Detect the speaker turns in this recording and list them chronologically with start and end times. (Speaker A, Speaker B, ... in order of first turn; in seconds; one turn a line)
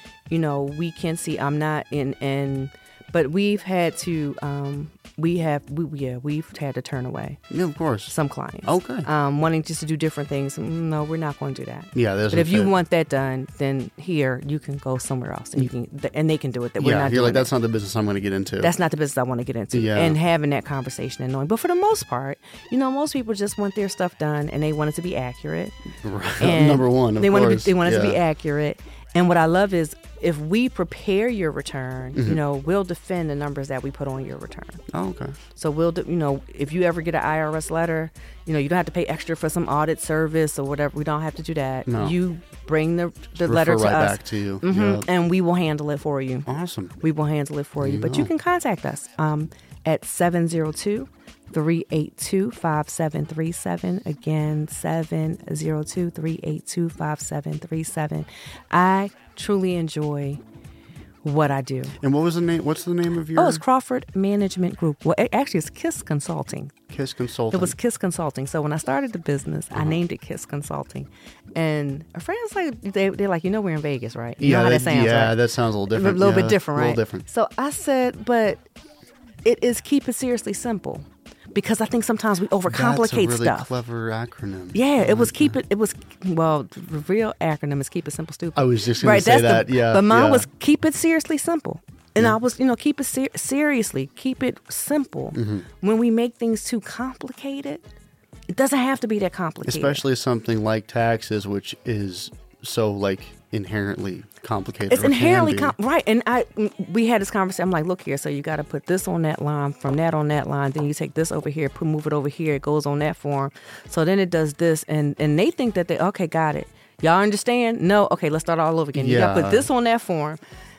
Speaker A: 0.3-7.4
Speaker B: 7.5-8.1
Speaker A: 8.1-17.5
Speaker B: 8.6-9.1
Speaker B: 11.9-12.7
Speaker B: 16.8-18.7
Speaker A: 18.6-25.7
Speaker B: 19.7-20.2
Speaker B: 26.0-28.2
Speaker A: 26.4-34.8
Speaker B: 32.1-32.4
Speaker B: 34.9-35.4
Speaker A: 35.5-46.5
Speaker B: 41.9-42.1
Speaker B: 43.4-45.0
Speaker B: 46.5-47.0
Speaker A: 47.0-60.4
Speaker B: 47.8-48.3
Speaker A: 61.2-62.0
Speaker B: 62.0-63.6
Speaker A: 63.3-66.8
Speaker B: 66.9-67.8
Speaker A: 67.5-78.6
Speaker B: 69.7-70.0
Speaker B: 74.4-77.2
Speaker A: 79.4-83.7
Speaker B: 82.7-85.6
Speaker A: 84.7-97.8
Speaker B: 88.5-90.5
Speaker B: 95.3-95.7
Speaker A: 98.5-100.0
Speaker B: 99.7-105.7
Speaker A: 104.9-120.4
Speaker B: 118.9-119.7